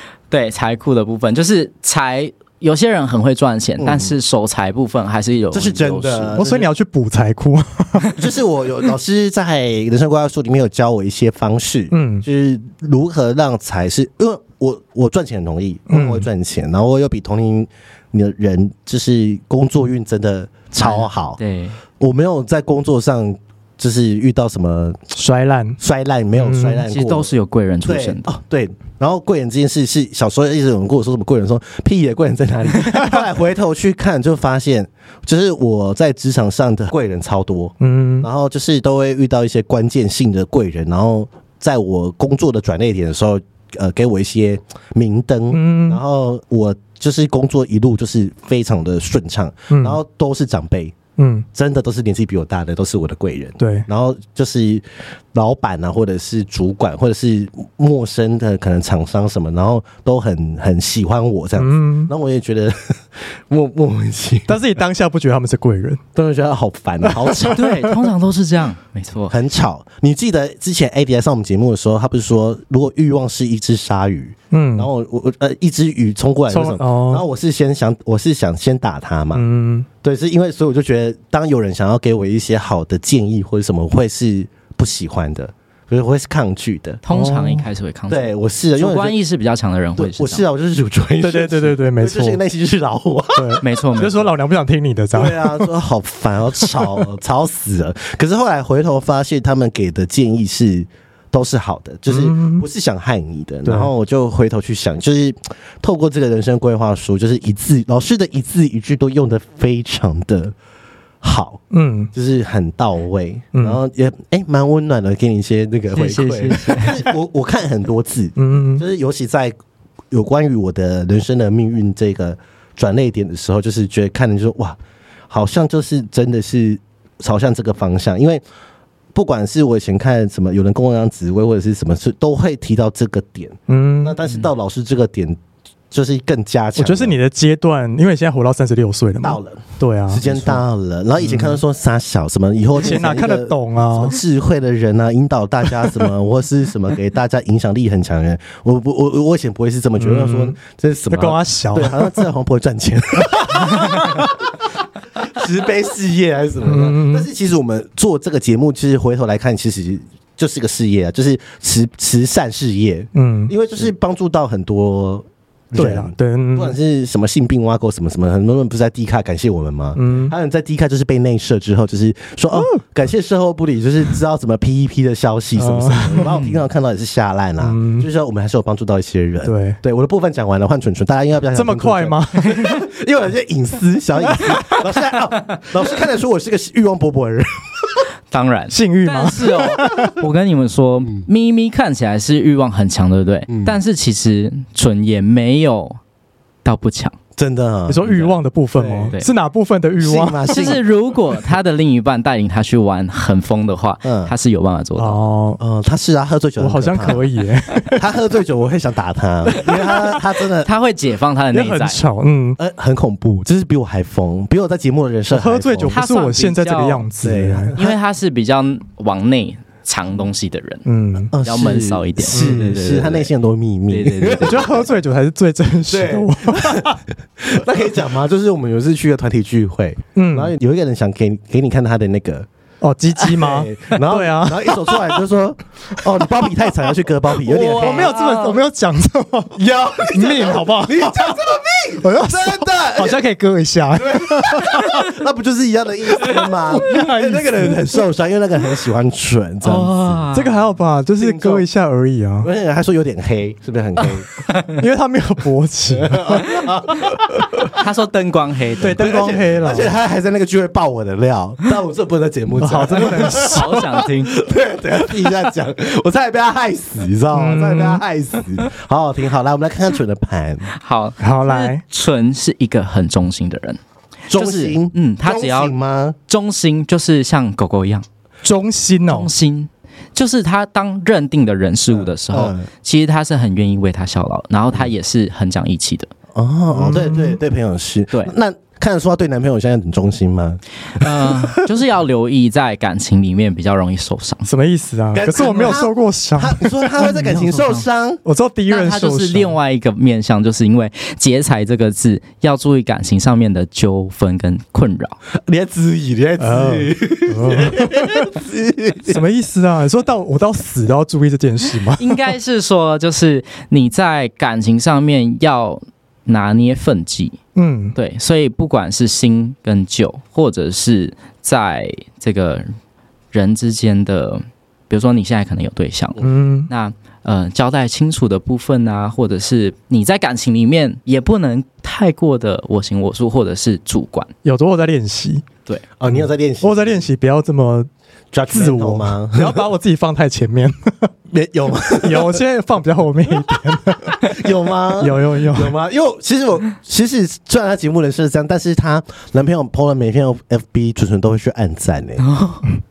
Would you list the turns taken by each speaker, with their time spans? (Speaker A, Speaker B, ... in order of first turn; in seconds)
Speaker A: 0.3-6.4, 20.8-21.8, 26.9-28.3, 67.4-69.4, 87.0-90.5, 93.6-94.2, 115.9-117.1, 176.3-176.6, 188.3-196.0, 196.6-197.2, 198.0-198.3, 200.5-205.2, 210.6-212.0, 215.9-217.1, 217.8-220.8, 221.4-223.3, 223.9-224.8, 237.5-238.6, 249.6-250.5, 257.7-259.2, 263.3-264.4, 270.7-273.8, 274.3-275.7, 276.3-278.1, 279.1-286.1, 290.9-294.5, 295.3-295.8, 297.0-297.9, 298.7-305.2, 312.0-317.4, 317.9-322.7, 323.3-334.3, 352.2-352.7
Speaker B: 3.8-4.1, 5.5-6.7, 8.2-21.4, 22.0-25.0, 25.8-27.3, 27.8-51.0, 51.5-64.6, 66.2-67.6, 69.3-79.5, 80.0-87.0, 88.1-89.2, 90.0-93.6, 95.1-110.5, 111.2-111.6, 112.1-119.5, 120.1-124.8, 125.3-128.4, 129.1-135.4, 135.9-137.2, 139.2-154.5, 155.2-188.1, 193.5-193.8, 197.4-198.1, 198.8-199.2, 200.0-200.8, 204.0-204.3, 205.6-207.3, 208.0-210.7, 212.6-216.0, 217.2-218.0, 221.3-224.9, 225.9-232.5, 233.2-238.2, 239.6-243.2, 243.9-250.2, 251.2-251.7, 252.4-254.3, 255.9-257.6, 258.9-270.7, 274.3-276.2, 281.9-282.7, 286.3-291.6, 295.1-298.2, 305.5-309.2, 336.0-337.1, 338.3-339.6, 341.3-342.4, 344.1-352.2
Speaker C: 6.4-8.2, 11.9-12.2, 15.9-16.3, 25.1-25.8, 26.4-26.9, 32.9-33.2, 37.8-38.3, 45.5-46.0, 49.7-50.0, 51.2-51.5, 53.6-53.9, 61.6-62.1, 64.5-66.0, 67.0-67.8, 74.5-74.9, 76.5-77.2, 79.3-79.9, 87.1-87.7, 91.2-92.4, 93.4-95.7, 96.6-97.0, 102.1-102.6, 111.7-112.1, 113.5-113.8, 118.4-118.8, 133.7-134.2, 136.8-140.6, 141.2-141.6, 142.8-144.2, 150.0-150.6, 151.1-152.3, 153.7-154.3, 156.6-157.3, 163.2-163.5, 165.8-166.8, 170.0-170.3, 172.5-172.8, 175.6-176.3, 177.6-178.1, 179.4-179.8, 181.5-182.6, 188.7-190.1, 197.9-200.6, 205.0-205.6, 206.6-208.0, 211.5-212.6, 215.3-217.7, 220.9-221.3, 222.3-222.7, 224.4-227.0, 230.2-230.5, 232.8-235.2, 236.1-236.4, 237.4-241.4, 242.0-245.1, 246.2-247.9, 250.3-252.5, 254.8-256.5, 258.8-259.9, 262.6-263.9, 267.3-268.0, 271.2-271.8, 278.4-279.3, 286.7-287.4, 294.5-296.9, 298.2-299.6, 306.4-308.3, 309.1-312.2, 317.6-318.0, 326.2-326.7, 334.4-335.5, 336.1-337.9, 338.5-341.1, 342.0-344.4, 345.0-345.8